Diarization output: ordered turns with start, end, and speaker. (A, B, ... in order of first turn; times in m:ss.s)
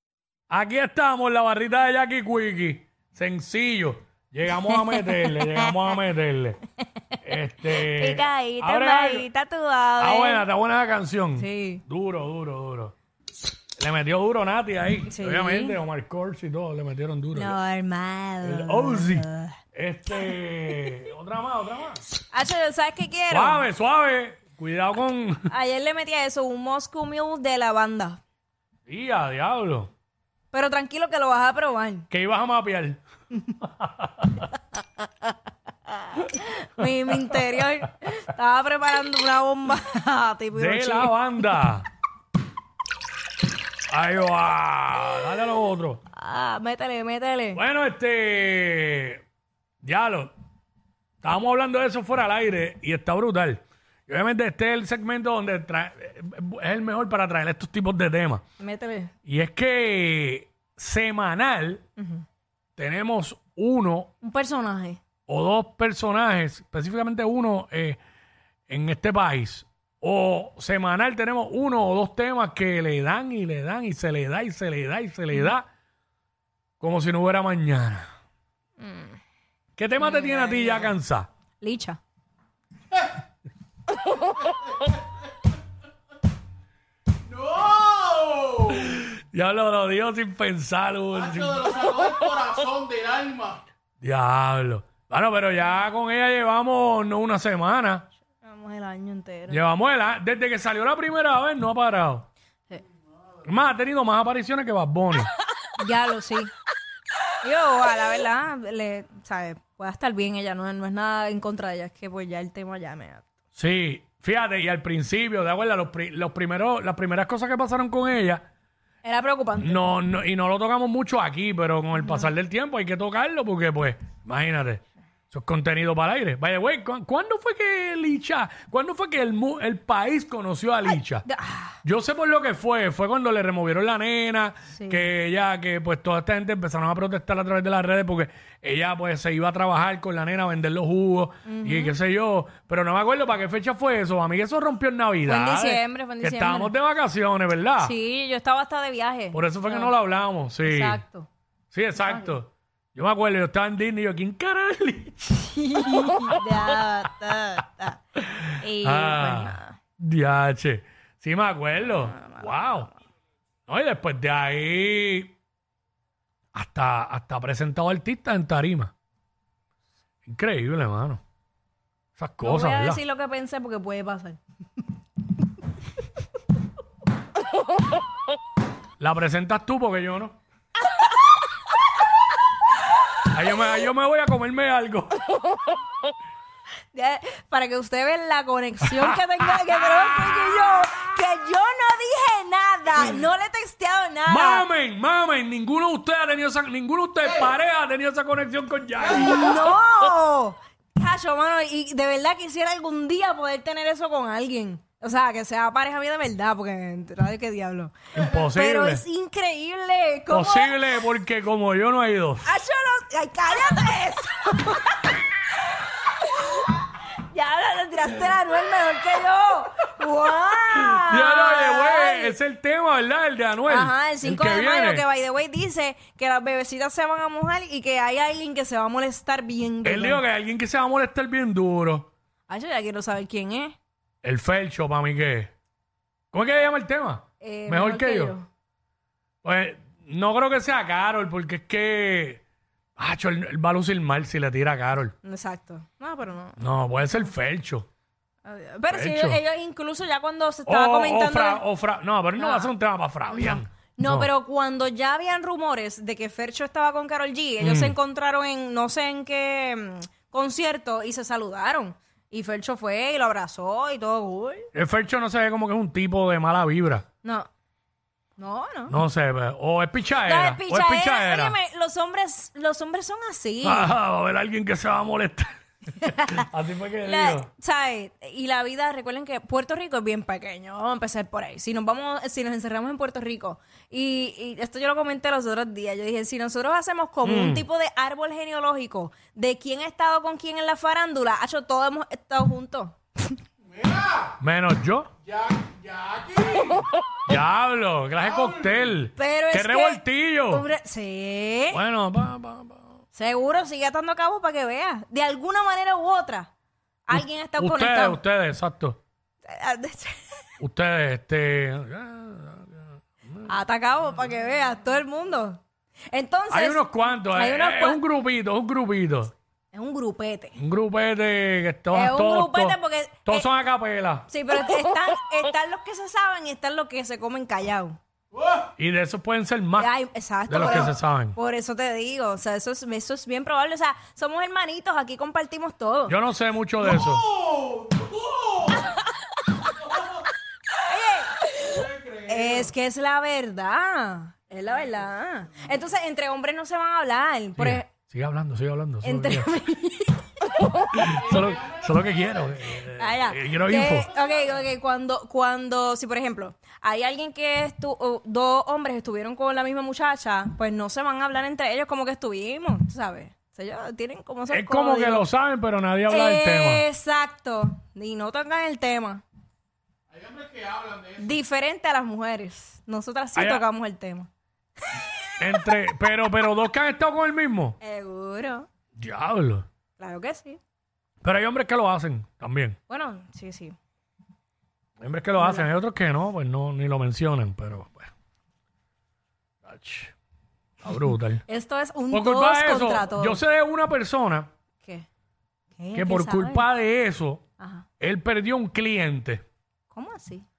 0:00.5-0:06.6 A
0:04.7-0:05.8 B
0:07.2-0:09.2 A
0:07.6-0:10.4 B
0:10.0-0:12.9 A
0:11.4-0:11.8 B
0:13.8-0:17.6 A
0:15.1-0:15.8 B
0:17.3-0:19.6 B
0:18.4-0:22.0 A
0:22.3-0:23.7 B
0:23.3-0:25.5 A
0:25.5-0:28.2 B
0:28.9-0:29.9 A
0:30.5-0:32.0 B
0:32.1-0:33.0 A
0:33.6-0:34.4 A
0:35.9-0:41.1 B
0:36.8-0:37.4 A
0:40.5-0:41.9 A
0:43.9-0:46.0 A
0:46.1-0:47.6 B
0:47.5-0:49.2 A
0:49.8-0:50.3 A
0:51.2-0:58.4 A
0:58.6-0:59.1 B
0:59.2-1:01.8 A
1:02.0-1:02.2 B
1:02.8-1:04.1 A
1:04.2-1:05.0 B
1:05.3-1:08.0 A
1:08.7-1:15.7 A
1:16.8-1:18.1 A
1:18.8-1:19.2 B
1:19.8-1:21.3 A
1:20.0-1:20.9 B
1:21.6-1:22.0 B
1:27.4-1:28.6 C
1:28.6-1:32.1 A
1:31.8-1:33.6 C
1:34.0-1:38.1 A
1:38.4-1:39.6 B
1:39.5-1:42.3 A
1:43.4-1:45.3 A
1:45.8-1:46.5 B
1:47.4-1:53.2 B
1:53.6-1:58.4 A
1:59.0-1:59.8 B
1:59.6-2:11.2 A
2:02.0-2:02.3 B
2:10.9-2:11.8 B
2:11.8-2:27.9 A
2:14.7-2:15.1 B
2:21.5-2:21.9 B
2:25.2-2:26.7 B
2:27.8-2:29.9 B
2:29.3-2:31.0 A
2:30.6-2:31.3 B
2:31.7-2:36.5 A
2:32.0-2:32.4 B
2:35.3-2:38.0 B
2:38.2-2:42.9 A
2:38.5-2:39.8 B
2:41.8-2:42.9 B
2:43.7-2:45.3 A
2:46.5-2:48.9 A
2:50.2-2:51.2 A
2:52.2-2:53.0 A
2:52.4-2:54.4 B
2:59.0-3:00.4 A
3:03.3-3:05.2 A
3:06.9-3:14.6 B
3:08.8-3:09.2 A
3:13.0-3:13.2 A
3:14.3-3:19.7 A
3:19.2-3:30.8 B
3:28.1-3:29.0 A
3:30.3-3:32.5 A
3:32.4-3:35.2 B
3:36.0-3:42.4 B
3:40.7-3:45.0 A
3:43.7-3:50.2 B
3:49.8-3:52.1 A
3:52.5-3:53.8 B
3:54.2-3:55.5 A
3:56.3-3:58.4 A
3:57.4-3:58.5 B
3:59.4-4:02.4 A
4:03.0-4:05.2 A
4:05.2-4:06.6 B
4:06.6-4:07.9 A
4:08.4-4:11.6 B
4:08.9-4:09.4 A
4:10.7-4:14.3 A
4:12.4-4:12.7 B
4:13.3-4:24.7 B
4:17.6-4:18.0 A
4:24.7-4:27.0 A
4:28.4-4:28.9 B
4:28.9-4:31.6 A
4:30.2-4:33.9 B
4:33.6-4:37.5 A
4:36.0-4:36.5 B
4:37.0-4:53.4 B
4:47.2-4:47.6 A
4:54.0-4:54.3 C
4:54.4-4:55.1 A
4:55.4-4:56.8 C
4:57.3-5:00.6 A
4:59.2-5:01.8 B
5:01.7-5:02.9 A
5:03.1-5:06.5 B
5:07.1-5:08.2 B
5:07.1-5:09.0 A
5:09.4-5:10.4 B
5:10.6-5:13.5 A
5:13.4-5:18.0 B
5:16.5-5:19.3 A
5:19.7-5:20.6 B
5:20.6-5:24.3 A
5:21.9-5:23.4 B
5:24.3-5:28.0 B
5:28.8-5:29.9 A
5:29.8-5:36.2 B
5:30.5-5:31.4 A
5:36.1-5:37.4 A
5:40.8-5:47.9 B
5:47.6-5:49.5 A
5:49.0-5:50.9 B
5:50.9-5:54.1 A
5:52.8-6:05.3 B
6:04.5-6:06.8 A
6:06.1-6:09.2 B
6:10.1-6:11.2 C
6:11.2-6:14.3 B
6:13.4-6:13.6 A
6:15.3-6:15.7 B
6:15.4-6:17.8 A
6:17.8-6:18.7 B
6:19.0-6:19.7 A
6:20.0-6:20.6 B
6:21.2-6:22.8 A
6:22.9-6:23.8 B
6:25.0-6:28.1 A
6:25.4-6:25.7 B
6:29.6-6:30.1 A
6:30.8-6:31.4 A
6:31.5-6:33.4 B
6:32.1-6:34.5 A
6:35.8-6:36.7 B
6:35.9-6:37.4 A
6:37.6-6:37.9 B
6:38.0-6:39.4 A
6:39.9-6:40.4 B